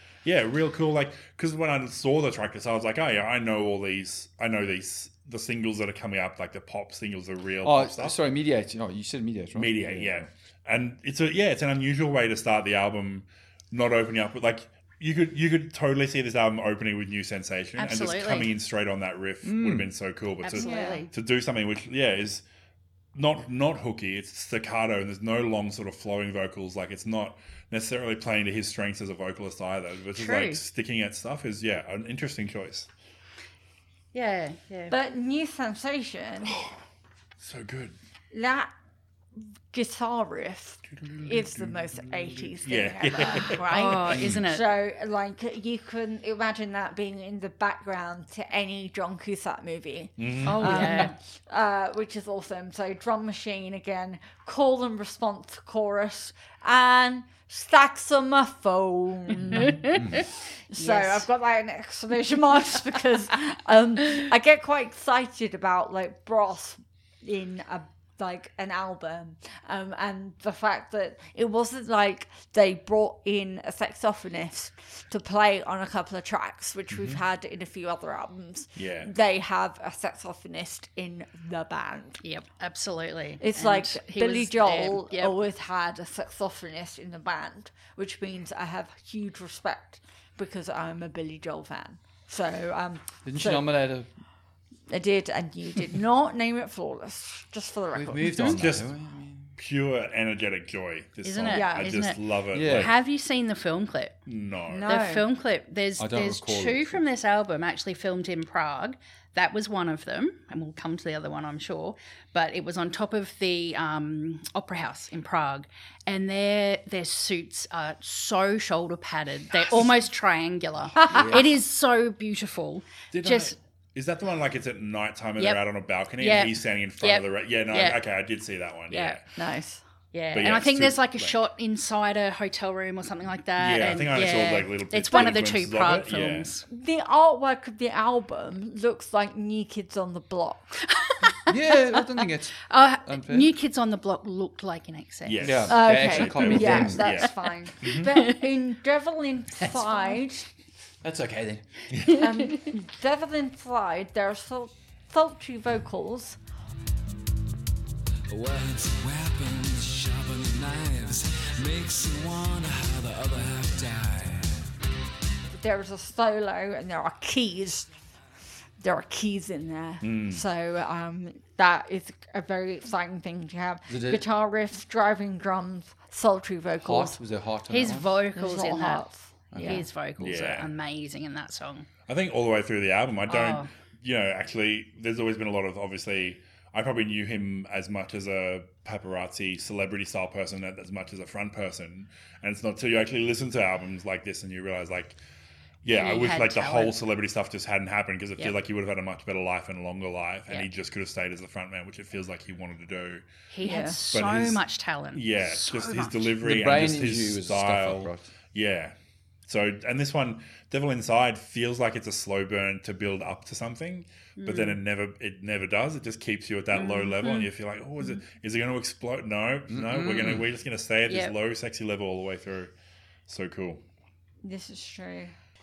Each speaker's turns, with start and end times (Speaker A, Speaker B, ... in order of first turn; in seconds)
Speaker A: 0.2-8.2, 9.5-22.4, 23.1-32.9, 36.5-36.7, 37.4-37.9, 41.1-41.7, 42.6-43.6, 50.2-51.1, 76.9-77.2, 78.8-79.1, 98.6-98.9, 99.5-102.9, 104.2-104.9, 121.1-121.5, 123.1-129.2, 130.3-131.3, 133.6-136.5, 145.2-148.1, 151.9-152.2, 170.0-170.4, 180.2-180.7, 182.1-195.2, 195.8-203.2, 204.1-204.6, 205.1-208.9, 209.5-222.7, 223.3-223.8
Speaker B: 7.6-10.2, 19.4-19.9, 44.1-44.4, 59.5-60.2, 93.2-94.1, 97.9-99.5, 102.5-102.9, 106.0-107.0, 141.5-143.5, 145.4-147.0, 151.0-151.6, 173.9-174.2, 176.8-178.2, 179.5-179.8, 206.4-208.3, 219.7-220.5
Speaker C: 17.8-18.5, 20.4-21.1, 30.1-30.6, 34.1-35.0, 43.4-44.7, 50.4-51.1, 59.5-61.3, 82.2-85.3, 98.3-98.6, 101.2-104.1, 104.8-123.5, 125.4-125.6, 126.2-128.0, 128.9-129.2, 130.1-136.7, 140.9-145.6, 146.6-147.4, 147.9-148.5, 152.1-152.6, 177.7-179.0, 179.6-181.9, 183.3-183.7, 195.9-196.9, 203.5-206.3, 214.4-214.8, 216.7-217.5, 221.1-221.3
Speaker D: 20.5-21.0, 34.9-36.6, 38.3-38.7, 39.4-60.0, 60.7-82.2, 83.4-93.7, 94.9-98.5, 101.5-102.0, 104.7-105.2, 121.0-121.4, 129.3-129.8, 136.7-140.8, 145.7-150.5, 152.1-156.4, 165.5-167.9, 168.8-177.2, 178.3-179.8, 203.6-204.0, 224.4-225.3
Speaker E: 158.3-164.6